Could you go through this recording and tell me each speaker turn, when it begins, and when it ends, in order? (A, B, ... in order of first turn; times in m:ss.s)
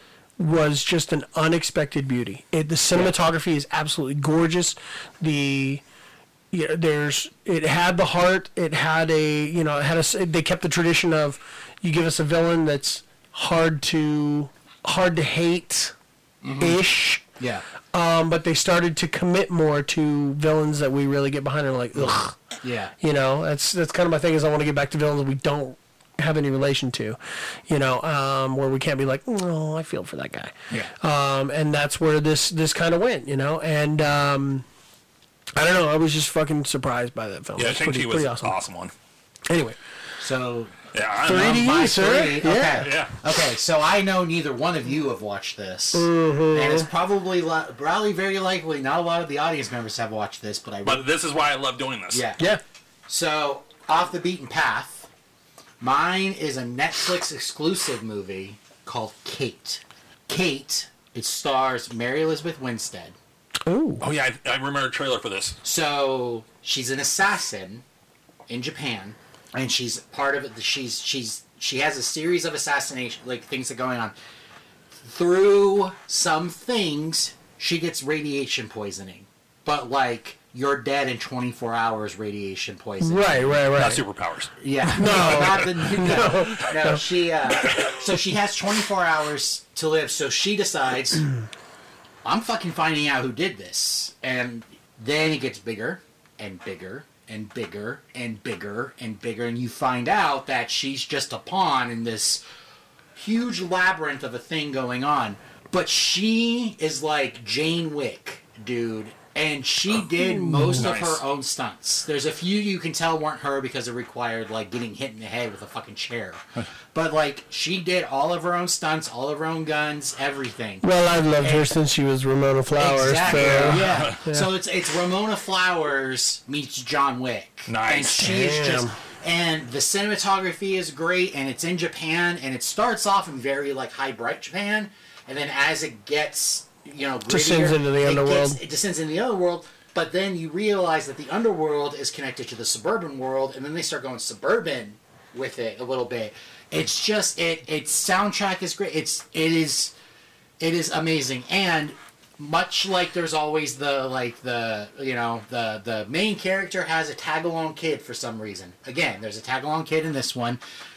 0:00.4-0:05.8 A
0:06.5-0:15.9 A
0:16.4-0:16.8 B
0:16.6-0:17.2 A
0:17.9-0:22.4 A
0:22.0-0:22.9 B
0:23.0-0:27.2 A
0:27.7-0:34.6 A
0:35.6-0:38.6 A
0:37.6-0:38.9 C
0:39.5-0:39.8 A
0:40.2-0:51.1 B
0:40.9-0:41.7 C
0:41.2-0:42.9 A
0:42.6-0:43.1 C
0:45.9-0:46.9 A
0:50.8-0:52.2 C
0:52.1-0:52.5 B
0:53.1-0:55.1 B
0:55.8-1:03.2 B
1:03.6-1:04.0 A
1:04.0-1:05.6 C
1:05.6-1:07.8 B
1:08.5-1:14.2 B
1:15.0-1:23.7 B
1:23.0-1:24.0 A
1:23.7-1:26.5 C
1:24.6-1:31.3 B
1:24.9-1:27.0 A
1:27.6-1:27.9 C
1:32.2-1:42.4 B
1:43.2-2:00.8 B
1:50.2-1:50.9 A
1:50.7-1:51.2 C
2:00.8-2:04.5 A
2:01.4-2:01.7 B
2:02.8-2:29.9 B
2:03.3-2:04.2 C
2:07.7-2:08.2 C
2:08.2-2:09.0 A
2:17.3-2:18.6 A
2:30.6-2:40.6 B